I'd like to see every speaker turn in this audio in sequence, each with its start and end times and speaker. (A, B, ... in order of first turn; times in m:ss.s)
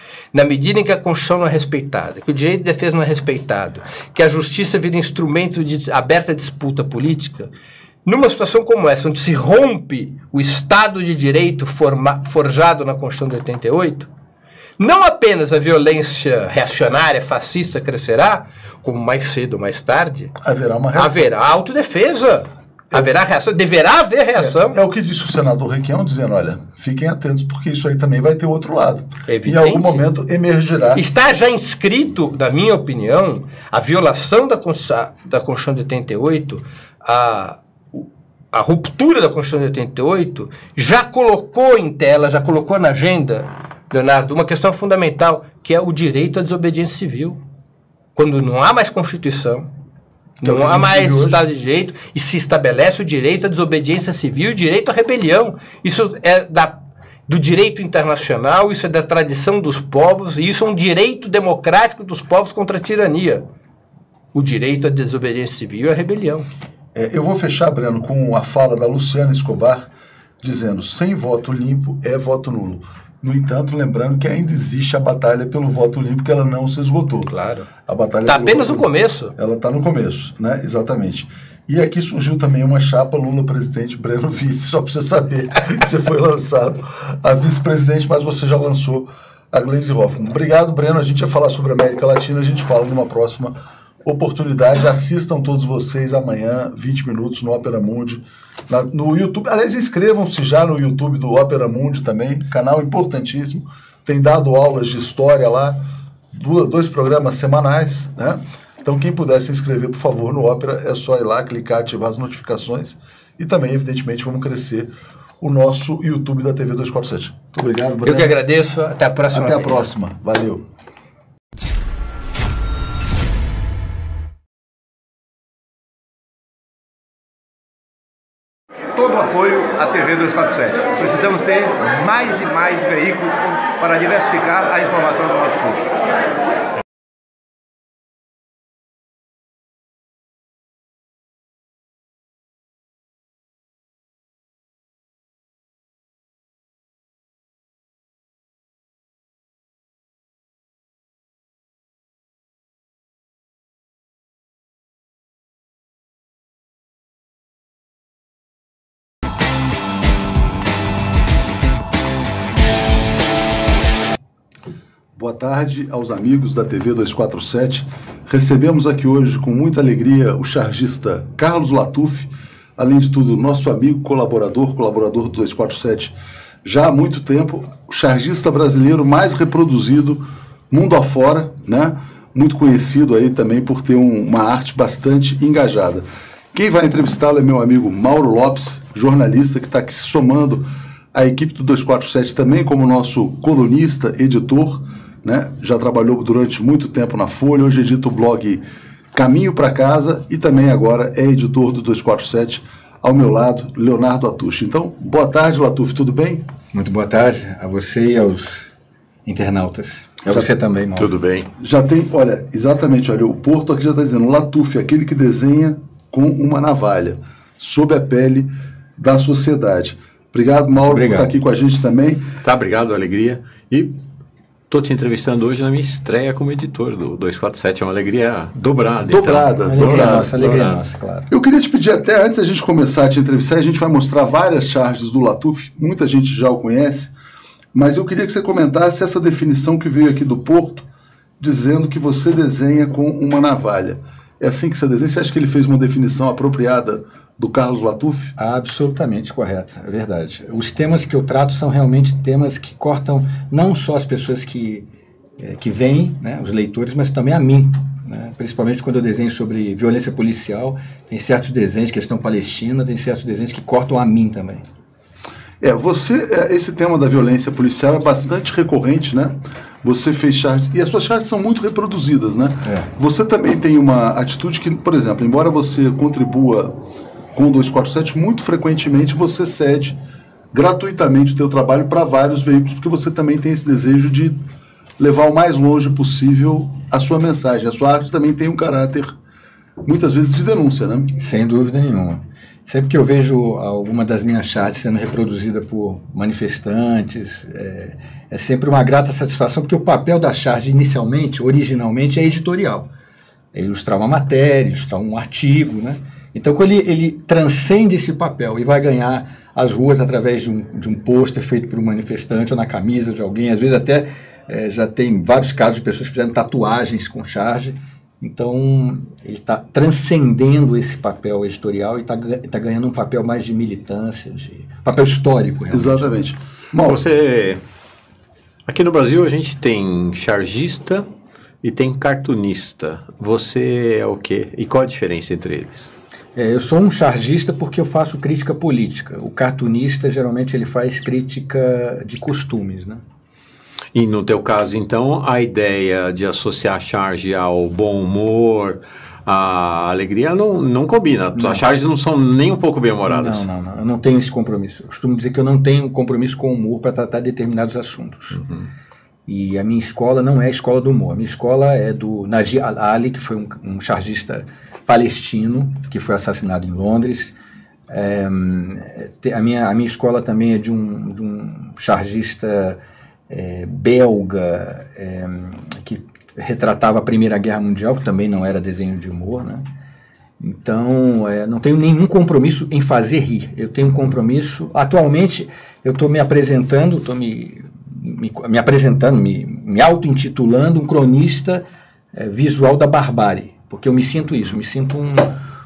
0:00.3-0:07.5 A
0:08.0-0:14.1 A
0:14.8-0:20.3 A
0:20.4-0:21.3 B
0:20.9-0:24.8 A
0:24.4-0:31.0 B
0:29.3-0:30.0 A
0:30.9-0:37.6 A
0:38.5-0:47.4 A
0:48.2-0:49.7 A
0:50.4-1:03.4 A
0:50.4-0:51.4 B
1:04.3-1:06.5 A
1:06.9-1:09.9 B
1:10.4-1:17.3 B
1:17.2-1:17.7 A
1:17.8-1:45.8 B
1:18.2-1:19.3 A
1:46.3-1:54.9 B
1:55.4-1:58.4 B
1:58.0-1:59.9 A
1:59.3-2:00.6 B
2:09.0-2:15.8 C
2:45.2-3:18.6 B
3:19.1-3:26.4 B
3:26.7-3:28.7 D
3:29.2-3:31.1 D
3:30.3-3:30.5 B
3:31.0-3:31.5 E
3:31.6-3:42.2 B
3:40.9-3:41.3 D
3:42.4-3:44.0 E
3:44.7-3:50.8 E
3:49.0-3:50.5 B
3:49.7-3:51.3 D
3:51.3-3:57.1 B
3:57.7-4:00.8 B
4:01.4-4:08.4 B
4:08.4-4:14.8 D
4:15.4-4:24.6 D
4:25.6-4:36.8 B
4:37.3-4:40.0 B
4:40.5-4:44.4 B
4:45.0-4:49.1 B
4:49.8-4:51.1 B
4:51.2-5:02.9 D
5:03.5-5:26.0 D
5:25.7-5:27.0 B
5:26.8-5:27.6 E
5:28.7-5:31.1 E
5:31.6-5:35.9 E
5:36.3-5:43.0 D
5:43.9-5:53.5 E
5:51.4-5:51.6 D
5:53.1-5:58.4 D
5:59.3-6:07.3 D
6:07.9-6:12.8 D
6:13.3-6:19.6 D
6:20.4-6:31.6 D
6:32.1-6:35.3 D